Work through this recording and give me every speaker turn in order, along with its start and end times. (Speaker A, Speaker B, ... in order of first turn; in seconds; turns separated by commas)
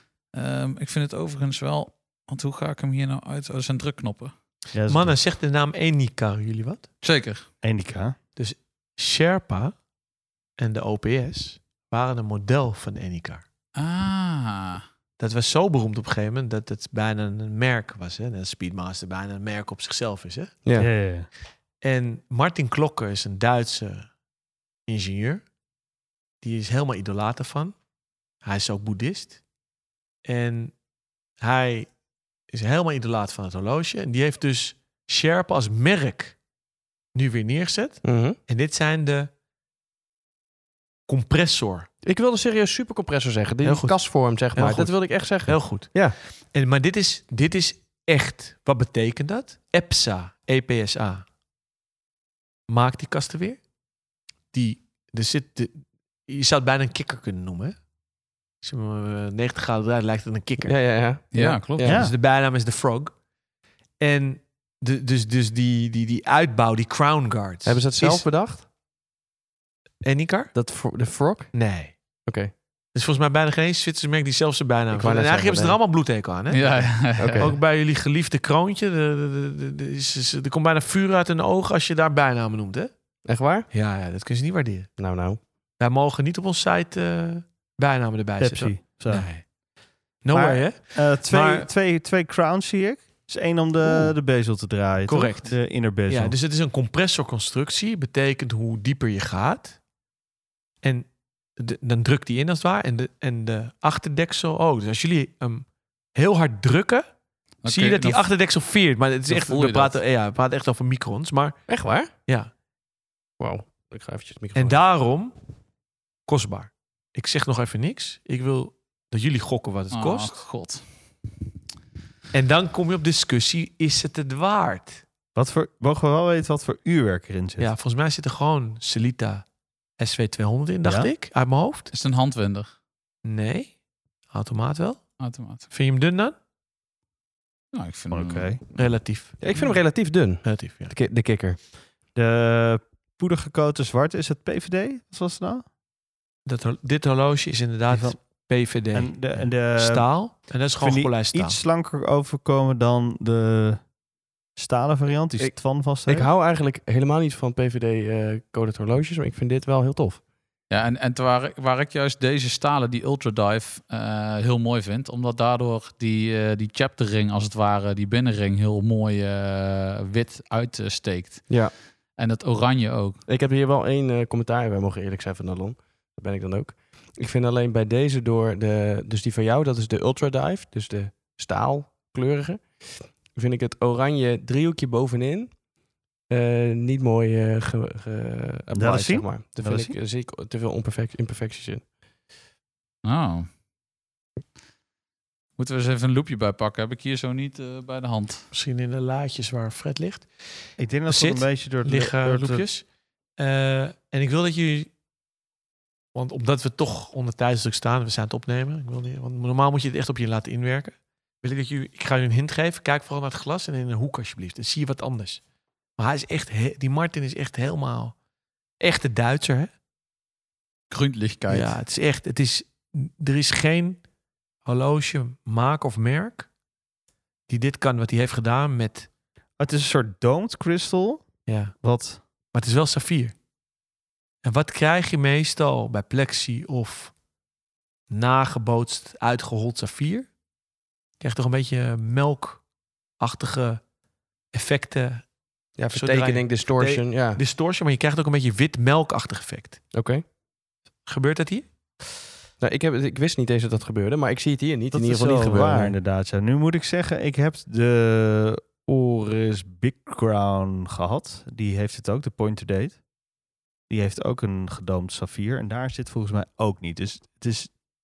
Speaker A: 0.3-4.3, Speaker B: 4.7-5.1, Speaker C: 4.9-6.8, Speaker A: 7.0-7.5, Speaker B: 7.6-8.1, Speaker C: 8.3-9.8, Speaker C: 10.6-13.4, Speaker A: 13.8-14.8, Speaker C: 15.2-20.5, Speaker D: 20.6-20.9, Speaker B: 20.7-21.3, Speaker C: 21.8-24.1, Speaker C: 24.9-25.4, Speaker C: 26.4-27.7, Speaker C: 28.4-29.4, Speaker C: 30.2-30.7, Speaker C: 31.4-31.9, Speaker C: 32.5-36.4, Speaker C: 37.1-39.3, Speaker D: 38.0-38.4, Speaker C: 41.1-41.9, Speaker D: 42.0-46.1, Speaker C: 43.6-51.2, Speaker C: 52.7-53.6, Speaker C: 54.5-57.8, Speaker C: 58.6-60.7, Speaker D: 60.6-62.0, Speaker A: 61.3-61.9, Speaker B: 61.8-62.1, Speaker C: 61.9-63.1, Speaker C: 64.0-68.2, Speaker D: 67.6-68.6, Speaker C: 70.0-70.5, Speaker D: 70.5-71.5, Speaker C: 71.5-71.9, Speaker D: 72.2-72.5, Speaker C: 72.9-82.9, Speaker D: 74.9-75.8, Speaker A: 76.5-77.5, Speaker D: 77.2-77.6, Speaker D: 83.2-83.7, Speaker C: 83.7-84.9, Speaker D: 85.0-85.4, Speaker C: 85.8-89.4, Speaker B: 88.4-89.3, Speaker C: 90.2-91.7, Speaker B: 90.3-96.3, Speaker C: 93.8-94.1, Speaker C: 95.1-99.8, Speaker C: 101.6-107.0, Speaker A: 107.6-108.3, Speaker C: 107.7-111.7, Speaker A: 109.3-110.0, Speaker D: 111.7-112.1, Speaker D: 113.4-114.8, Speaker C: 114.5-115.3, Speaker C: 116.3-120.4, Speaker A: 119.9-120.8, Speaker C: 122.3-125.0, Speaker B: 125.3-127.7, Speaker C: 127.6-129.4, Speaker C: 130.0-131.9, Speaker B: 130.8-131.1, Speaker A: 131.9-132.7, Speaker C: 133.2-133.7, Speaker C: 134.3-135.1, Speaker A: 135.2-135.7, Speaker C: 135.7-136.3, Speaker A: 137.7-138.6, Speaker B: 138.1-138.6, Speaker C: 138.7-139.4, Speaker D: 139.4-141.6, Speaker C: 140.4-140.9, Speaker B: 142.1-145.6, Speaker C: 146.4-151.6, Speaker B: 147.9-148.2, Speaker B: 148.7-153.8, Speaker B: 154.6-156.3, Speaker D: 156.1-160.2, Speaker A: 160.7-173.2, Speaker D: 173.3-185.5, Speaker D: 186.3-191.8, Speaker B: 188.7-190.0, Speaker A: 193.0-193.5, Speaker A: 195.6-198.4, Speaker C: 198.5-200.3, Speaker B: 200.8-202.6, Speaker C: 201.1-202.8, Speaker C: 203.4-204.9, Speaker C: 206.1-215.4, Speaker C: 216.0-218.1, Speaker C: 218.8-219.7, Speaker A: 220.9-221.8, Speaker C: 221.5-224.0, Speaker C: 224.6-226.5, Speaker C: 227.5-229.1, Speaker B: 229.6-231.2, Speaker C: 231.5-231.7, Speaker B: 231.8-232.2, Speaker C: 232.5-233.3, Speaker C: 234.4-237.1, Speaker C: 238.1-240.3, Speaker C: 241.2-242.6, Speaker C: 243.2-243.8, Speaker C: 244.5-245.2, Speaker D: 245.8-247.4, Speaker C: 245.9-249.8, Speaker D: 249.9-250.2, Speaker C: 251.1-251.7, Speaker D: 252.6-255.9, Speaker B: 254.9-263.0, Speaker B: 263.9-267.7